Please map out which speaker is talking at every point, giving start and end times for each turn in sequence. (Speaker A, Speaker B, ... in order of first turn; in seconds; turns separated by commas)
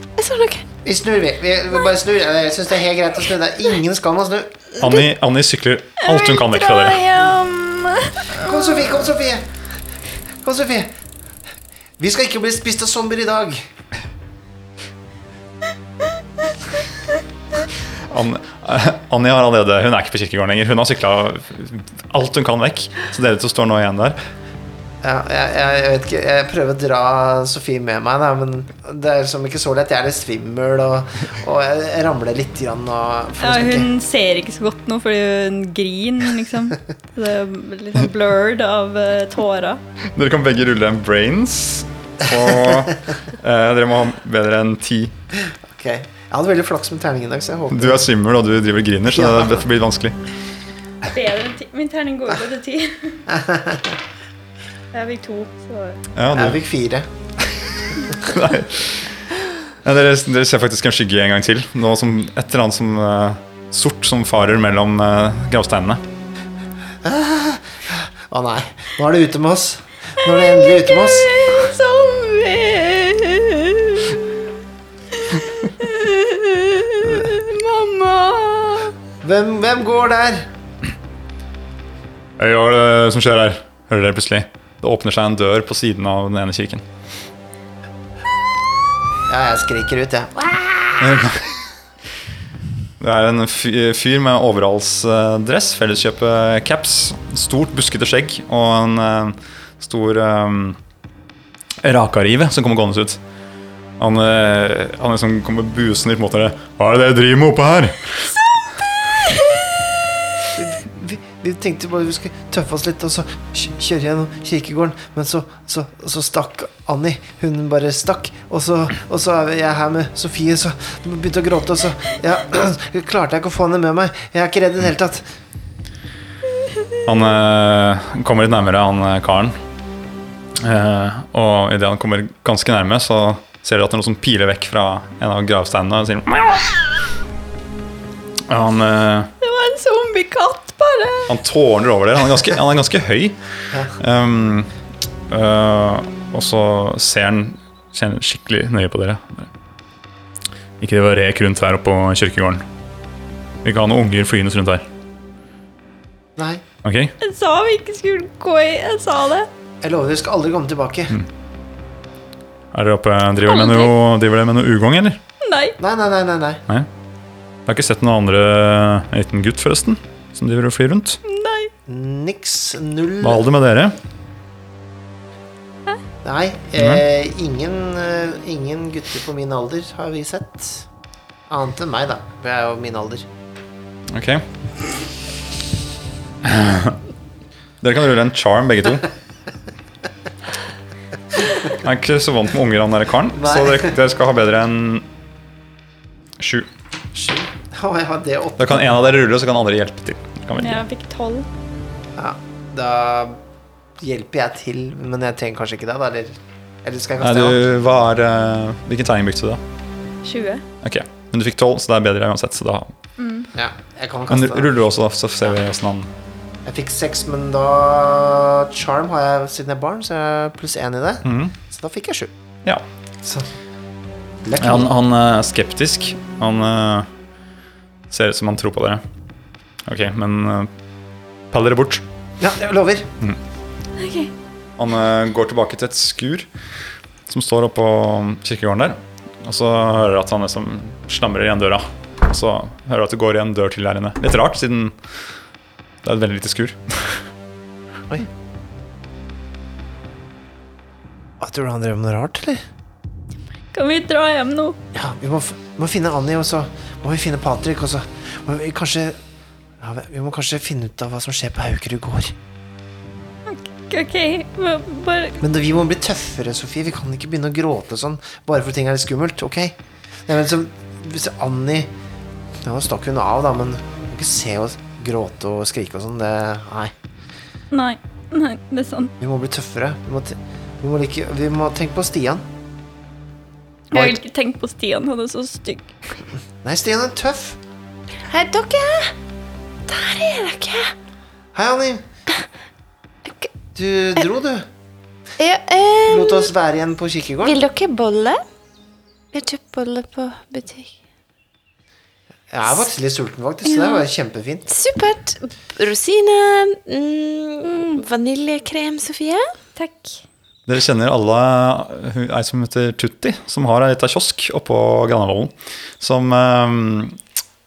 Speaker A: 0.2-0.7, Speaker B: 0.8-4.6, Speaker C: 4.8-7.0, Speaker D: 6.0-8.7, Speaker B: 8.3-9.6, Speaker B: 10.4-10.9, Speaker B: 12.0-13.7, Speaker C: 18.1-24.2, Speaker B: 25.0-33.9, Speaker D: 33.4-39.8, Speaker C: 40.1-45.1, Speaker B: 42.3-42.9, Speaker B: 45.5-48.0, Speaker C: 47.7-50.2, Speaker B: 49.1-49.6, Speaker D: 51.0-53.2, Speaker B: 53.3-53.9, Speaker D: 54.9-56.0, Speaker C: 56.1-56.6, Speaker B: 56.3-57.1, Speaker C: 58.2-66.0, Speaker B: 67.0-71.5, Speaker D: 70.3-74.2, Speaker D: 75.1-78.9, Speaker B: 77.0-77.3, Speaker B: 79.2-80.5, Speaker C: 82.4-86.8, Speaker B: 89.3-91.2, Speaker C: 91.0-91.5, Speaker C: 93.0-100.8, Speaker C: 101.8-103.2, Speaker C: 104.0-108.3, Speaker B: 110.5-125.3, Speaker C: 127.0-129.6, Speaker C: 130.6-136.9, Speaker C: 138.5-139.3, Speaker D: 139.4-141.3, Speaker C: 141.3-144.7, Speaker C: 145.3-149.5, Speaker C: 150.8-152.6, Speaker C: 153.6-154.8, Speaker B: 156.3-156.6, Speaker C: 156.8-157.1, Speaker D: 157.2-159.5, Speaker B: 159.8-161.1, Speaker C: 162.7-165.2, Speaker D: 163.4-163.9, Speaker D: 165.4-165.8, Speaker B: 165.8-166.6, Speaker C: 167.7-171.2, Speaker D: 171.2-171.7, Speaker B: 171.8-173.4, Speaker C: 173.2-174.0, Speaker B: 176.2-180.9, Speaker C: 176.8-177.0, Speaker B: 181.5-183.3, Speaker C: 184.1-184.4, Speaker C: 186.4-187.0, Speaker C: 187.8-189.1, Speaker C: 191.6-195.1, Speaker B: 193.3-193.9, Speaker C: 196.4-196.7, Speaker B: 197.1-199.0, Speaker C: 198.6-200.8, Speaker D: 200.6-201.5, Speaker B: 202.2-203.4, Speaker B: 204.0-207.6, Speaker C: 207.2-209.6, Speaker D: 210.2-210.6, Speaker C: 210.8-212.9, Speaker D: 213.2-213.5, Speaker B: 213.5-214.7, Speaker C: 214.3-216.1, Speaker B: 216.6-222.3, Speaker C: 221.2-221.5, Speaker B: 223.2-223.5, Speaker B: 224.4-224.9, Speaker C: 224.6-227.1, Speaker C: 228.1-229.0, Speaker C: 229.8-230.7, Speaker C: 231.5-232.0, Speaker B: 232.4-233.1, Speaker D: 234.0-234.3, Speaker C: 234.8-236.5, Speaker C: 237.3-244.9, Speaker C: 246.0-247.2, Speaker B: 251.4-252.6, Speaker D: 253.7-254.8, Speaker B: 254.9-259.2, Speaker B: 259.8-262.4, Speaker D: 263.4-265.4, Speaker B: 265.4-271.9, Speaker B: 272.6-276.9, Speaker D: 277.7-279.1, Speaker B: 279.2-282.4, Speaker D: 283.9-285.9, Speaker B: 283.9-284.2, Speaker B: 286.6-287.6, Speaker A: 288.2-289.1, Speaker A: 289.9-290.9, Speaker B: 291.5-292.0, Speaker A: 293.2-293.5, Speaker B: 293.7-294.7, Speaker A: 295.4-296.5, Speaker B: 296.1-297.6, Speaker A: 297.4-298.4, Speaker A: 299.3-300.9, Speaker B: 302.5-304.7, Speaker D: 303.7-304.0, Speaker A: 304.7-309.5, Speaker D: 309.8-310.2, Speaker C: 310.7-317.2